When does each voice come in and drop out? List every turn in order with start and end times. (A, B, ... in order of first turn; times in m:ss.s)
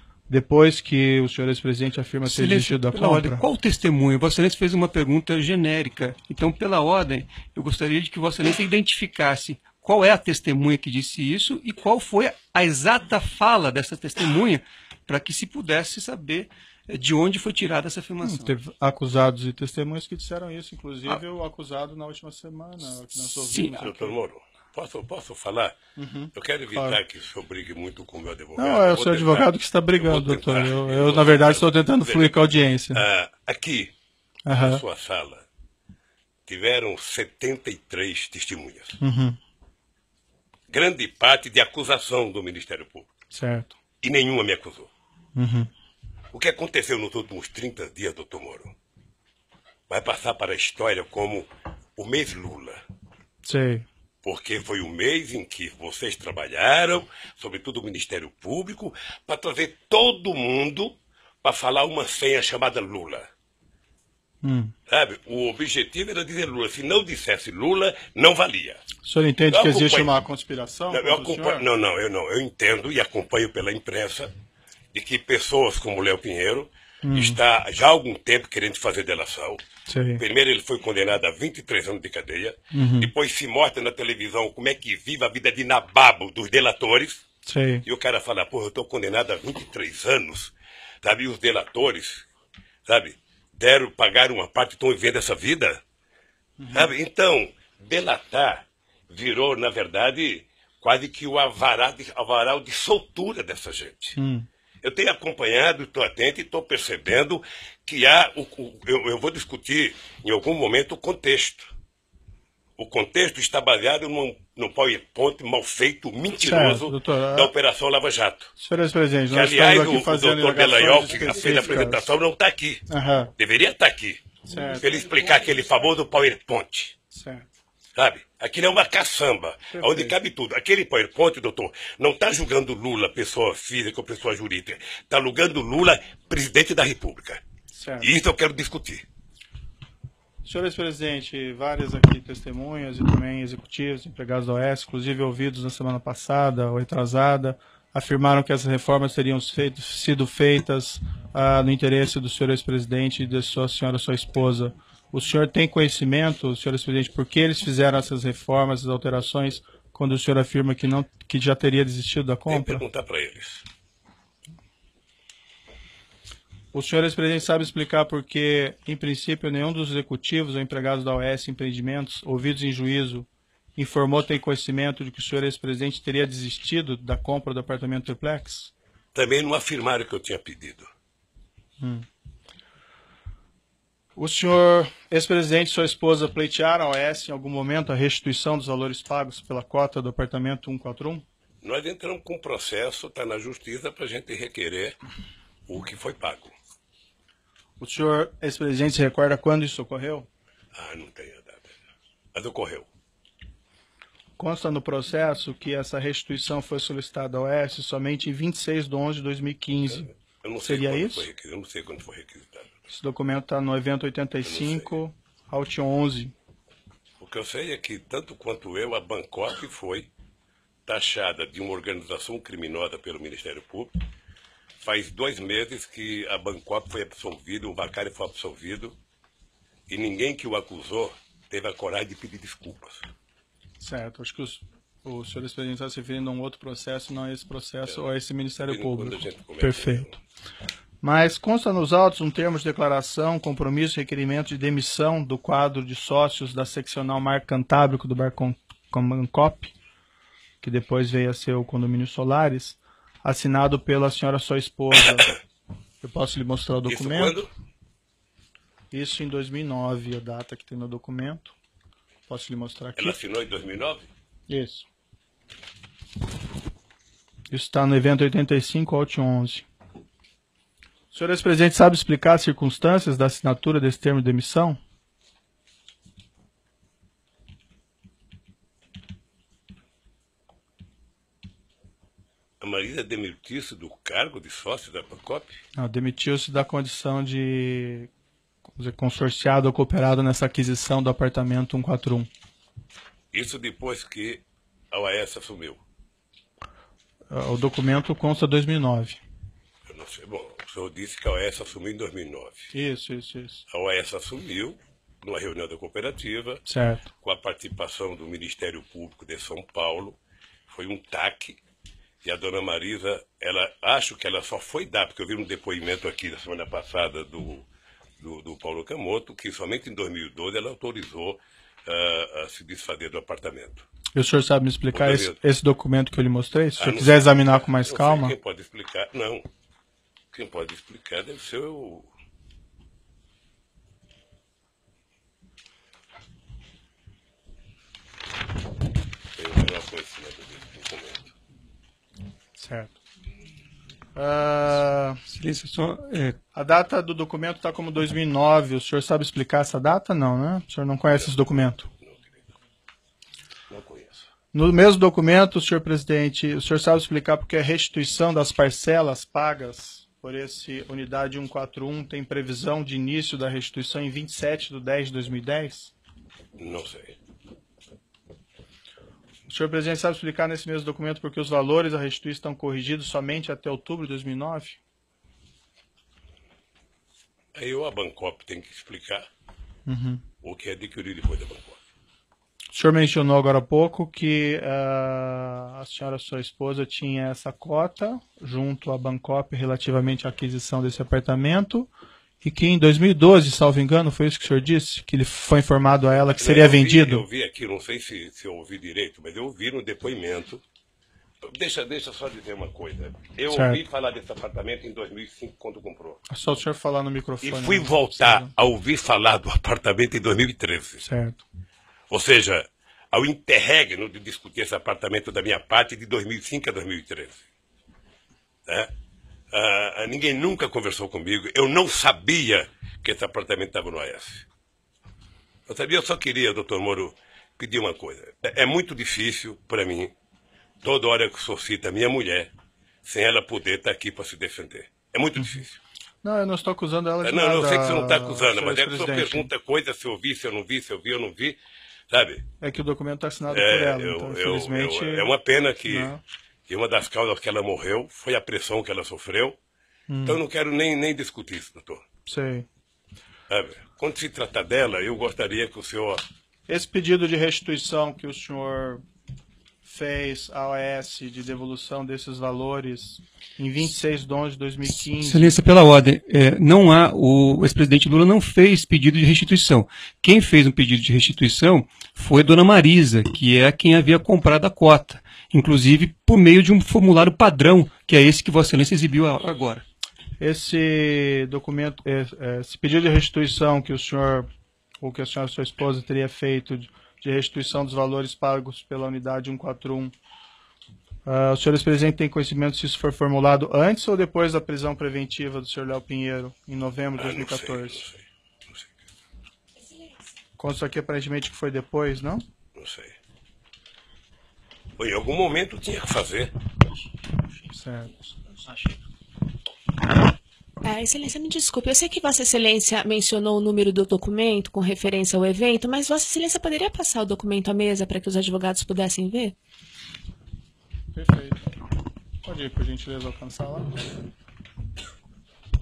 0:00.3-0:03.4 A
0:02.3-0:18.5 B
0:18.2-0:24.2 A
0:23.5-0:23.8 B
0:23.7-0:25.8 C
0:26.0-0:27.0 A
0:26.3-0:33.9 C
0:28.6-0:33.0 A
0:34.5-0:34.8 A
0:34.6-0:35.4 C
0:36.5-0:39.0 C
0:39.0-0:39.4 A
0:40.7-0:43.1 C
0:43.3-0:43.8 A
0:44.0-0:44.9 C
0:45.4-0:45.7 A
0:46.3-0:48.8 C
0:49.9-0:52.8 C
0:53.4-0:53.9 A
0:54.2-1:03.3 C
1:04.4-1:04.7 A
1:04.9-1:08.8 C
1:09.0-1:11.7 A
1:09.5-1:10.1 C
1:10.9-1:14.3 C
1:14.9-1:19.6 C
1:17.0-1:17.4 A
1:19.9-1:20.2 A
1:20.2-1:27.2 C
1:22.7-1:23.1 A
1:27.4-1:27.8 A
1:27.8-1:32.3 C
1:32.9-1:35.8 C
1:36.6-1:36.9 A
1:36.7-1:44.2 C
1:44.2-1:44.5 A
1:44.8-1:51.7 C
1:52.8-1:58.5 C
1:56.4-1:57.5 A
1:58.6-2:02.1 A
1:59.3-2:02.8 C
2:02.9-2:03.3 A
2:03.4-2:04.2 C
2:04.4-2:04.8 A
2:04.8-2:06.9 C
2:07.1-2:07.5 A
2:08.0-2:17.4 C
2:09.7-2:10.2 A
2:17.7-2:18.1 A
2:18.0-2:19.0 C
2:20.4-2:42.8 A
2:42.5-2:43.6 C
2:46.7-2:58.7 A
2:59.2-3:00.9 C
3:01.8-3:02.0 A
3:04.2-3:11.2 A
3:11.6-3:15.0 C
3:15.7-3:16.6 C
3:17.8-3:20.3 A
3:20.7-3:21.7 C
3:22.4-3:22.9 C
3:24.4-3:31.3 A
3:29.9-3:32.8 C
3:32.9-3:36.3 A
3:34.4-3:35.0 C
3:37.2-3:40.1 C
3:40.9-3:43.9 C
3:44.8-3:49.0 C
3:49.9-3:53.1 C
3:53.8-4:00.2 A
3:58.7-4:00.2 C
4:01.0-4:09.7 A
4:10.6-4:15.3 A
4:16.0-4:17.4 A
4:16.9-4:17.5 C
4:18.9-4:21.6 A
4:22.3-4:23.2 A
4:23.0-4:24.1 C
4:24.5-4:24.9 A
4:27.5-4:29.7 A
4:31.1-4:34.8 A
4:42.6-4:45.6 C
4:45.8-4:48.1 A
4:48.8-4:52.3 A
4:53.3-4:55.8 C
4:57.3-4:59.2 A
4:59.9-5:02.7 C
5:02.7-5:03.6 A
5:03.7-5:06.6 C
5:06.6-5:07.1 A
5:07.2-5:11.6 C
5:12.2-5:17.7 C
5:18.2-5:23.9 C
5:24.1-5:28.4 A
5:24.9-5:25.4 C
5:26.8-5:29.5 C
5:30.3-5:32.1 C
5:39.4-5:41.3 C
5:42.6-5:43.0 A
5:44.2-5:45.2 A
5:45.3-5:46.4 B
5:46.5-5:51.9 A
5:52.0-5:52.4 C
5:53.7-5:54.3 C
5:54.5-6:05.9 A
6:06.6-6:07.2 C
6:09.5-6:14.8 A
6:17.6-6:19.3 C
6:19.9-6:20.2 A
6:20.4-6:21.8 C
6:22.7-6:31.9 A
6:32.4-6:37.3 A
6:36.4-6:40.6 C
6:41.4-6:46.2 C
6:43.5-6:43.8 A
6:46.3-6:48.5 A
6:47.4-6:51.0 C
6:51.0-6:51.4 A
6:52.1-6:57.4 C
6:59.5-7:04.5 C
7:05.7-7:10.1 C
7:10.8-7:12.5 C
7:13.0-7:15.8 C
7:16.2-7:19.5 A
7:17.2-7:21.6 C
7:22.1-7:22.5 C
7:22.6-7:25.3 A
7:23.5-7:26.2 C
7:25.8-7:26.2 A
7:26.7-7:29.6 C
7:30.1-7:30.4 A
7:30.2-7:32.0 C
7:32.3-7:32.7 A
7:33.5-7:36.2 C
7:36.7-7:39.0 A
7:39.8-7:45.6 A
7:45.2-7:59.8 B
8:00.4-8:04.5 A
8:05.0-8:10.2 A
8:11.3-8:18.0 A
8:17.2-8:18.9 C
8:20.6-8:22.4 A
8:22.8-8:23.2 C
8:25.0-8:26.5 C
8:27.7-8:28.2 A
8:30.8-8:39.6 D
8:41.1-8:41.6 A
8:42.4-8:44.0 A